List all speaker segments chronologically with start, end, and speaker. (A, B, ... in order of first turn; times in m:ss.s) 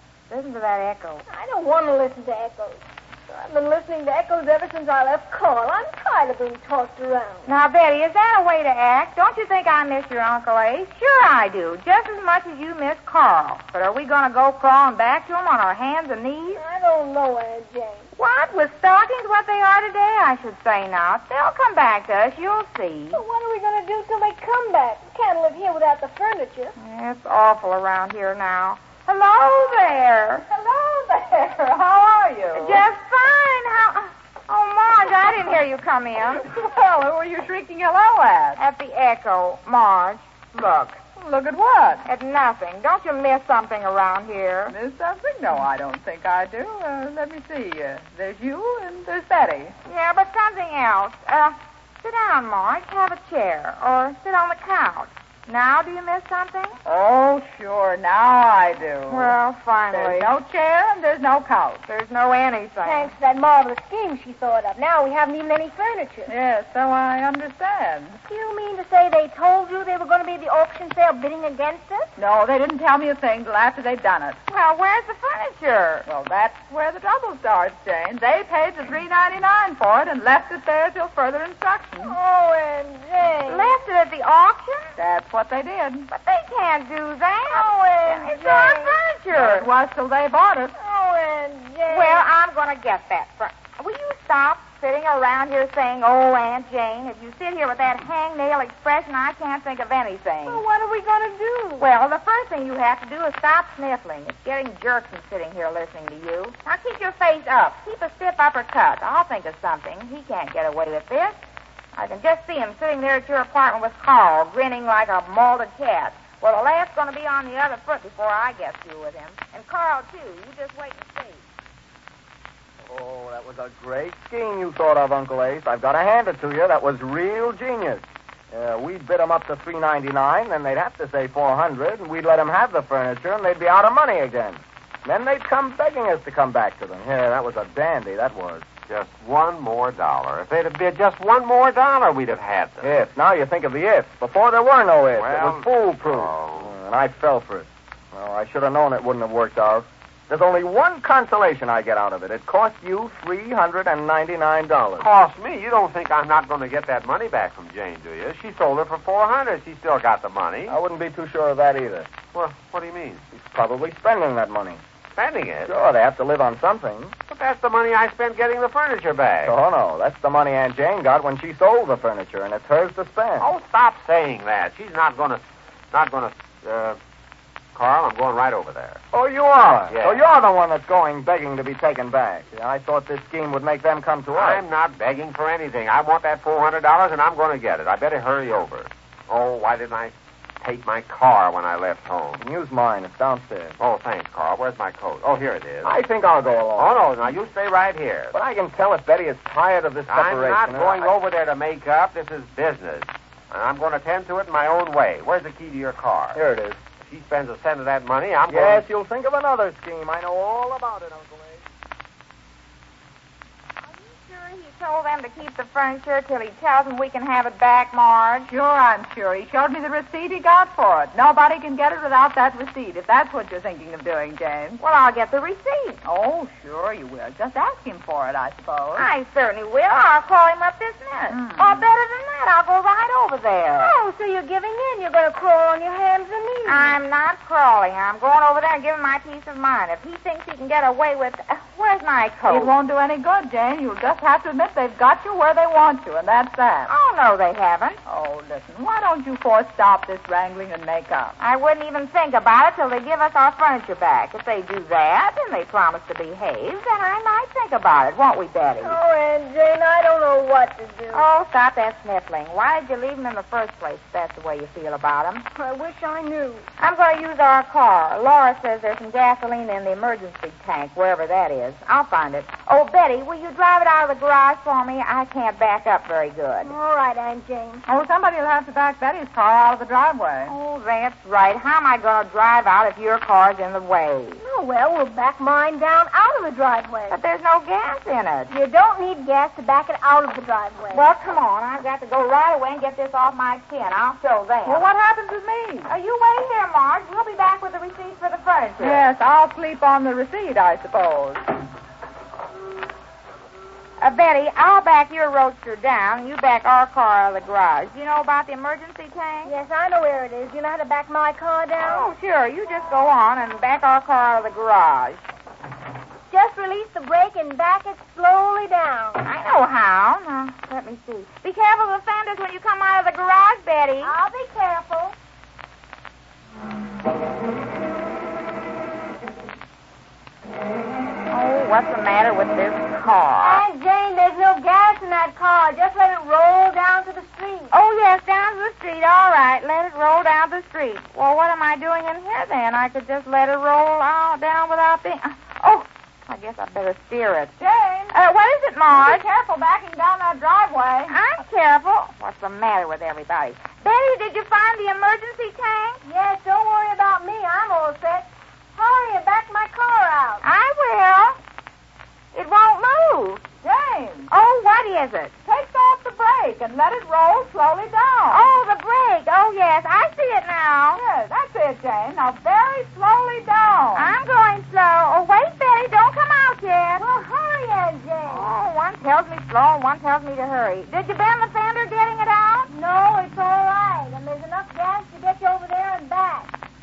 0:00.3-0:01.2 A
0:01.3-0:07.5 B
0:07.4-0:16.6 A
0:16.5-0:18.1 B
0:18.2-0:23.2 A
0:23.1-0:26.7 B
0:26.8-0:30.4 A
0:30.5-0:32.8 C
0:32.6-0:36.4 A
0:36.4-0:38.6 C
0:38.6-0:41.0 A
0:41.2-0:42.0 C
0:42.0-0:44.8 A
0:44.7-0:49.7 C
0:49.8-0:56.8 A
0:56.8-0:59.4 C
0:59.1-1:00.3 A
0:59.9-1:01.8 C
1:01.9-1:03.1 A
1:02.8-1:06.3 B
1:06.3-1:08.2 C
1:08.3-1:12.1 B
1:12.2-1:14.4 C
1:14.5-1:16.1 A
1:16.0-1:22.1 C
1:22.0-1:23.8 B
1:23.5-1:24.9 A
1:25.0-1:26.1 C
1:26.1-1:29.7 A
1:27.5-1:29.0 B
1:29.3-1:30.8 C
1:30.8-1:32.2 B
1:31.9-1:40.6 A
1:40.4-1:41.9 B
1:41.8-1:51.4 A
1:51.9-2:01.5 A
2:02.9-2:18.7 D
2:18.9-2:23.0 E
2:22.8-2:35.1 D
2:25.1-2:26.7 E
2:35.0-2:40.8 E
2:40.7-2:42.1 D
2:42.3-2:43.2 E
2:43.3-2:44.8 D
2:45.2-2:45.8 E
2:45.6-2:47.1 D
2:47.3-2:49.5 E
2:49.4-2:53.5 D
2:53.4-2:57.0 E
2:57.7-2:59.0 E
2:59.1-3:04.6 D
2:59.9-3:00.2 E
3:04.3-3:12.4 E
3:12.4-3:13.8 D
3:13.8-3:16.0 E
3:15.8-3:17.0 D
3:16.8-3:18.3 E
3:18.3-3:21.1 D
3:20.1-3:26.4 E
3:26.3-3:26.8 D
3:27.0-3:28.8 E
3:28.5-3:31.6 D
3:33.8-3:38.5 A
3:38.5-3:44.8 C
3:44.8-3:46.0 A
3:46.0-3:49.1 C
3:49.0-3:53.9 A
3:51.3-3:51.8 C
3:53.8-3:57.0 B
3:56.6-4:02.7 A
4:02.5-4:06.9 C
4:06.9-4:08.0 A
4:08.0-4:11.3 C
4:11.4-4:19.0 A
4:18.8-4:21.2 B
4:21.1-4:25.4 A
4:25.6-4:26.7 B
4:26.8-4:36.7 A
4:36.6-4:37.8 B
4:37.9-4:40.5 C
4:40.5-4:44.4 A
4:44.4-4:47.2 B
4:47.1-4:48.5 A
4:48.5-4:51.1 B
4:50.9-4:54.8 A
4:54.6-4:55.9 C
4:55.8-4:59.0 A
4:58.8-5:01.5 C
5:04.0-5:09.5 A
5:09.4-5:12.1 B
5:11.8-5:15.2 A
5:16.3-5:19.3 B
5:19.2-5:24.1 A
5:24.0-5:25.2 B
5:31.3-5:33.6 A
5:33.4-5:37.7 B
5:37.7-5:47.6 A
5:47.6-5:48.2 C
5:48.1-5:49.2 A
5:48.9-5:51.1 C
5:51.1-5:56.0 A
5:56.0-6:00.4 B
6:00.4-6:01.4 A
6:02.3-6:03.4 A
6:03.6-6:04.3 C
6:04.3-6:05.3 A
6:05.4-6:08.4 C
6:08.3-6:11.0 A
6:10.9-6:14.1 C
6:13.9-6:17.0 A
6:17.0-6:18.5 B
6:18.2-6:22.7 A
6:22.7-6:26.5 B